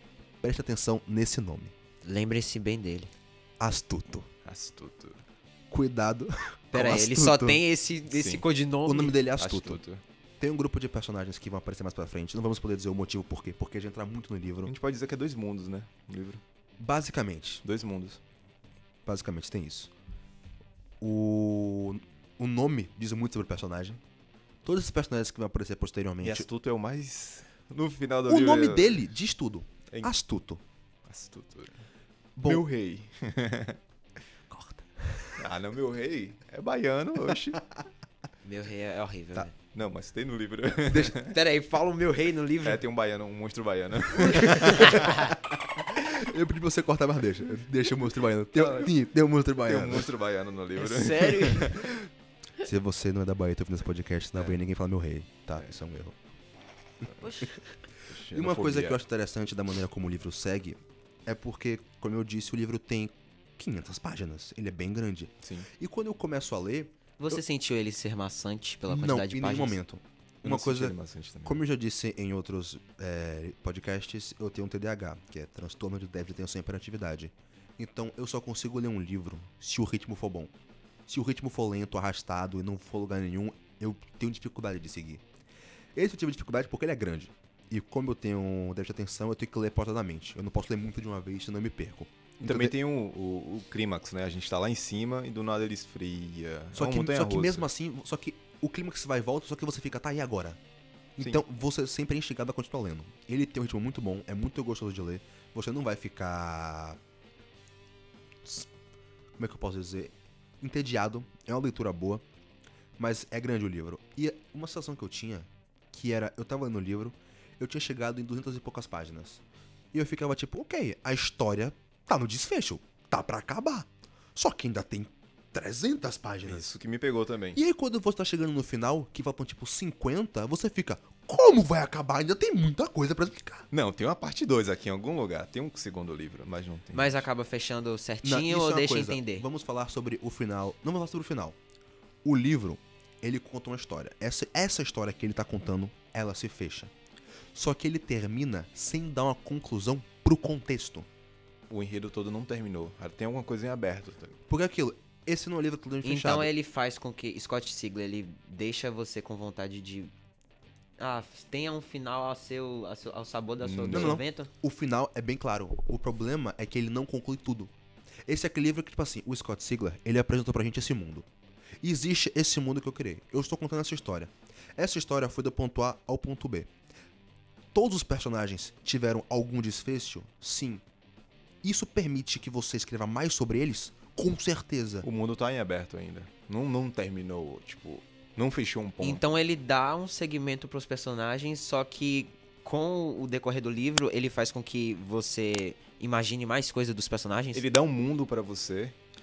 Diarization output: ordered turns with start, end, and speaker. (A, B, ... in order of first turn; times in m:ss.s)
0:00.4-0:01.7 A
0:02.0-0:03.1 B
0:03.6-0:04.3 A
0:04.4-0:05.2 C
0:05.7-0:07.6 A
0:06.7-0:09.2 B
0:08.1-0:08.4 C
0:08.8-0:09.8 A
0:09.4-0:10.0 C
0:10.4-0:14.7 A
0:14.6-0:16.4 C
0:16.8-0:17.6 A
0:17.6-0:18.2 C
0:19.0-0:19.9 A
0:21.0-0:24.0 A
0:24.6-0:26.5 A
0:26.2-0:29.0 C
0:28.2-0:30.6 A
0:31.1-0:31.7 C
0:32.4-0:32.6 A
0:32.4-0:33.8 C
0:34.5-0:35.4 A
0:35.4-0:37.6 C
0:38.4-0:39.5 B
0:39.7-0:41.4 C
0:41.1-0:42.8 B
0:42.6-0:45.1 C
0:44.2-0:50.1 A
0:44.5-0:45.2 B
0:49.6-0:51.9 C
0:50.8-0:51.8 B
0:52.6-0:56.2 A
0:57.2-0:57.6 B
0:58.1-0:59.0 C
0:58.3-1:07.4 A
1:05.4-1:05.7 C
1:07.2-1:09.8 B
1:08.9-1:20.5 A
1:10.4-1:11.6 C
1:21.0-1:25.2 A
1:25.9-1:32.7 A
1:32.4-1:37.7 C
1:36.7-1:40.6 A
1:41.2-1:47.0 A
1:48.4-1:48.7 A
1:49.4-1:52.2 A
1:53.0-1:59.4 A
1:59.9-2:06.7 A
2:06.4-2:07.6 C
2:07.5-2:13.7 A
2:13.7-2:17.2 C
2:16.9-2:19.4 B
2:18.2-2:21.6 A
2:22.2-2:26.9 A
2:27.5-2:31.1 A
2:31.7-2:34.4 C
2:34.5-2:36.5 A
2:36.0-2:40.1 B
2:41.0-2:44.5 B
2:43.6-2:44.2 C
2:43.9-2:47.7 A
2:48.2-2:51.3 A
2:51.8-2:56.7 A
2:57.7-3:00.8 A
3:01.6-3:05.1 A
3:05.0-3:09.2 C
3:09.0-3:17.6 B
3:17.5-3:18.9 C